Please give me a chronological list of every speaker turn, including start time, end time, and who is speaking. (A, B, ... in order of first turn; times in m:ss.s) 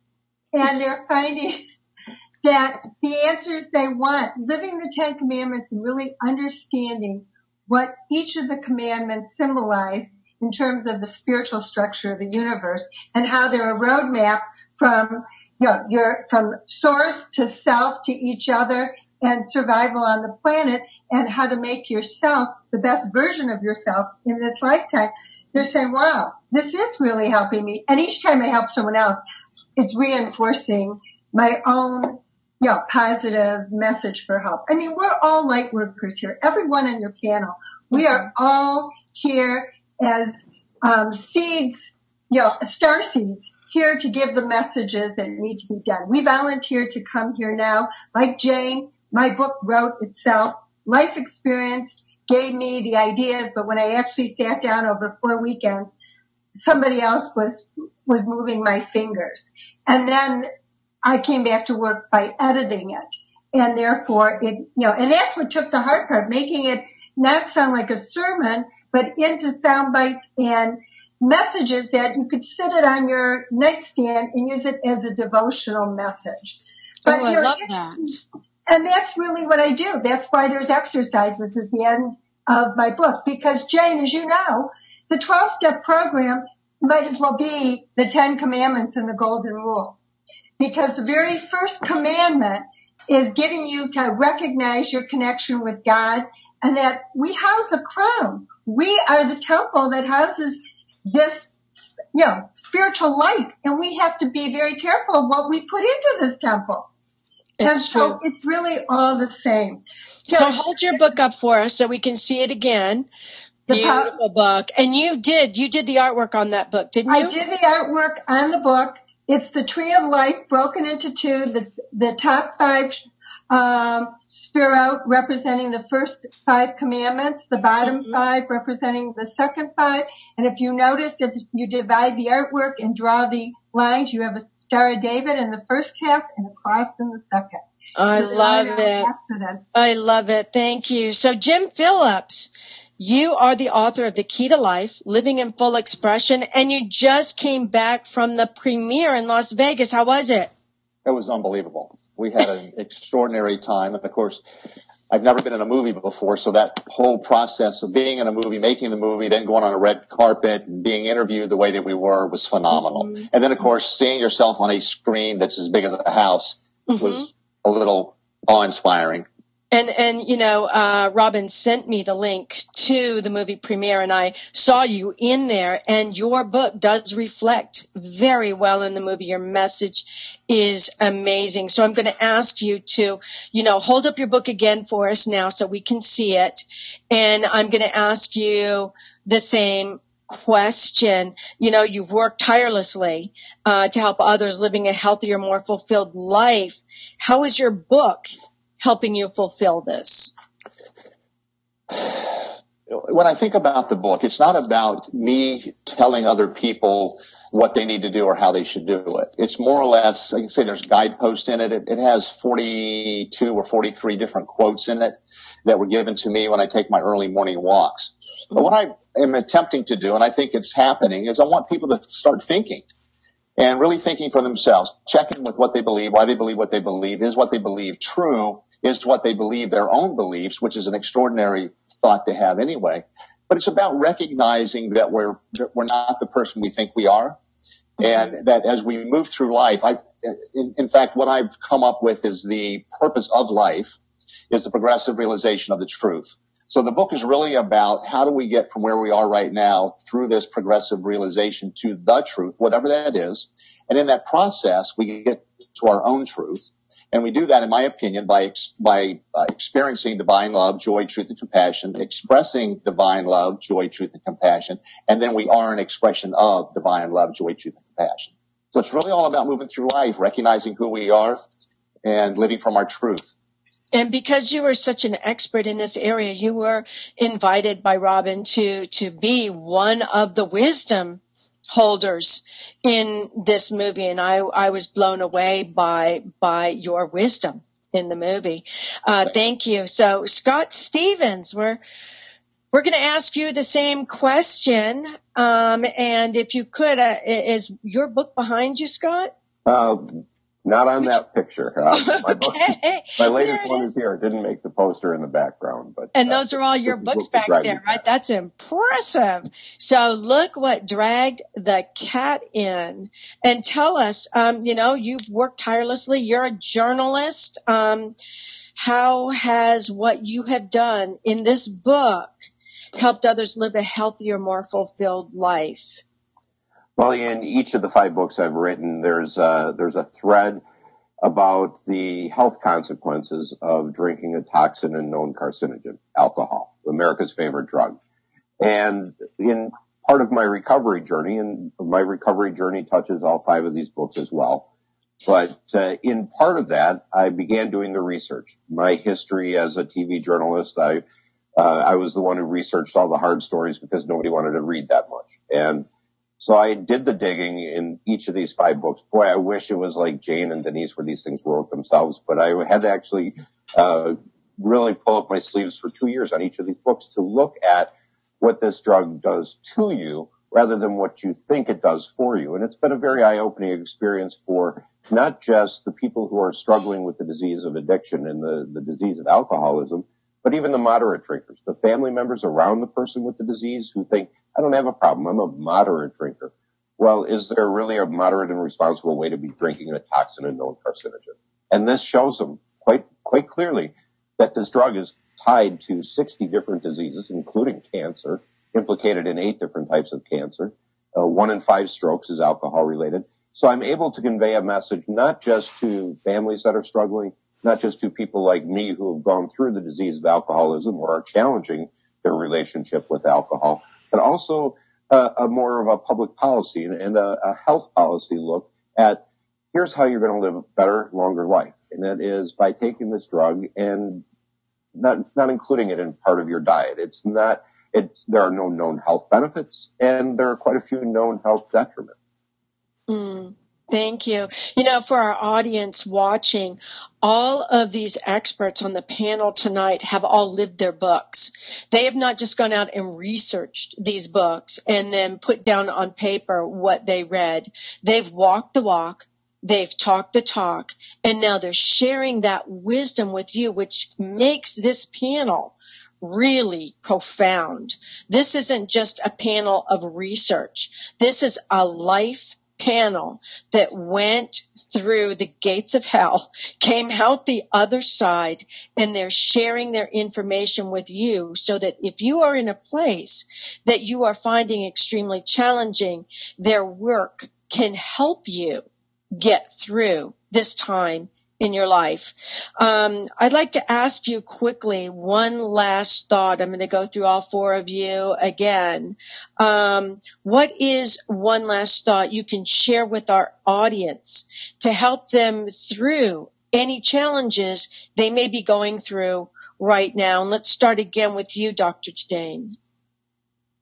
0:00.5-0:01.6 A
0:02.4-0:29.2 A
0:29.8-0:41.8 A
0:42.3-0:55.9 A
0:56.6-1:00.5 A
1:01.0-1:16.5 A
1:17.0-1:18.1 A
1:17.0-1:18.2 B
1:18.7-1:30.0 A
1:30.6-1:41.5 A
1:42.1-1:46.9 A
1:47.6-1:48.2 B
1:47.6-1:51.0 A
1:50.3-1:53.1 B
1:53.7-1:54.1 A
1:53.7-1:57.3 B
1:57.1-2:03.0 A
2:03.5-2:17.6 A
2:07.8-2:08.2 B
2:18.0-2:19.1 B
2:18.1-2:19.6 A
2:19.7-2:30.5 B
2:31.0-2:34.4 C
2:35.1-2:49.2 C
2:42.7-2:43.3 B
2:46.9-2:47.3 B
2:49.7-3:20.3 B
3:22.0-3:42.8 C
3:43.6-3:57.4 C
3:58.0-4:04.0 C
4:04.5-4:31.4 C
4:32.0-4:33.3 C
4:33.9-4:51.8 B
4:52.7-4:59.3 B
4:59.6-5:08.0 D
5:01.9-5:03.9 B
5:06.1-5:18.1 B
5:18.8-5:26.0 B
5:27.0-5:30.6 D
5:31.2-5:38.0 D
5:38.6-5:44.7 D
5:45.2-5:51.0 D
5:51.6-5:55.8 D
5:56.4-7:04.2 D
7:05.0-7:12.1 D
7:13.1-8:22.8 B